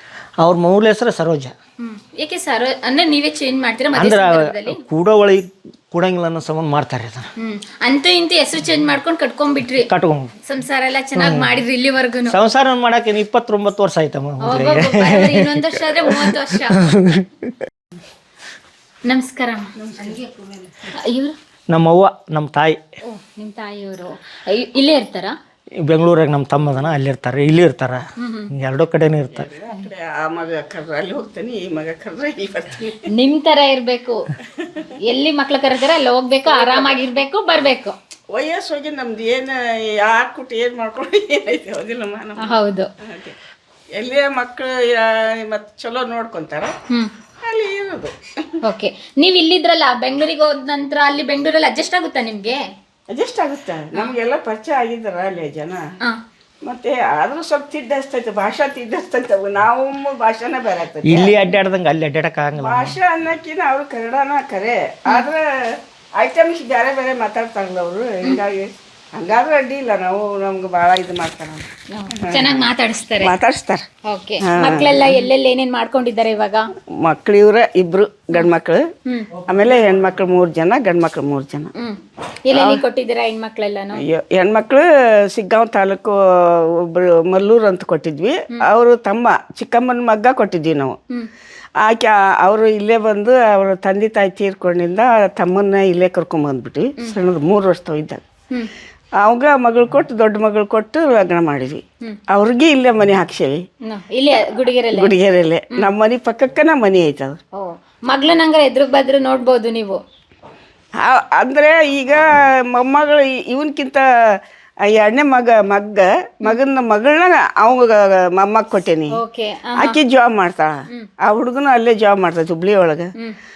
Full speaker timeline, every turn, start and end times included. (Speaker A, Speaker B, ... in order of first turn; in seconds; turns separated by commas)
Speaker A: 0.4-1.5, Speaker B: 1.8-4.8, Speaker A: 3.9-7.3, Speaker B: 7.4-9.9, Speaker A: 9.8-10.3, Speaker B: 10.4-12.3, Speaker A: 11.1-11.6, Speaker A: 12.3-17.7, Speaker B: 14.4-16.9, Speaker B: 19.1-19.7, Speaker C: 19.8-20.7, Speaker B: 20.9-21.4, Speaker A: 21.7-22.8, Speaker B: 23.0-25.4, Speaker A: 25.8-29.5, Speaker B: 28.2-28.5, Speaker C: 29.4-33.0, Speaker B: 33.1-34.2, Speaker C: 34.6-34.9, Speaker B: 35.1-37.9, Speaker C: 36.5-37.0, Speaker C: 38.3-43.4, Speaker B: 42.4-42.9, Speaker C: 44.0-46.7, Speaker C: 47.4-48.6, Speaker B: 48.6-52.6, Speaker C: 53.1-55.8, Speaker C: 56.6-61.4, Speaker A: 61.0-63.0, Speaker C: 62.6-71.7, Speaker B: 71.9-73.3, Speaker C: 72.2-72.7, Speaker C: 73.2-73.8, Speaker B: 74.1-76.7, Speaker C: 74.4-75.2, Speaker C: 77.0-78.9, Speaker C: 79.5-81.7, Speaker B: 81.8-84.0, Speaker C: 82.5-82.8, Speaker C: 83.9-91.0, Speaker C: 91.8-98.2, Speaker C: 99.2-103.6, Speaker B: 103.8-105.1, Speaker C: 104.9-107.4, Speaker B: 107.5-110.0, Speaker C: 111.0-114.0, Speaker C: 114.8-119.2, Speaker B: 119.1-120.0, Speaker C: 119.7-123.1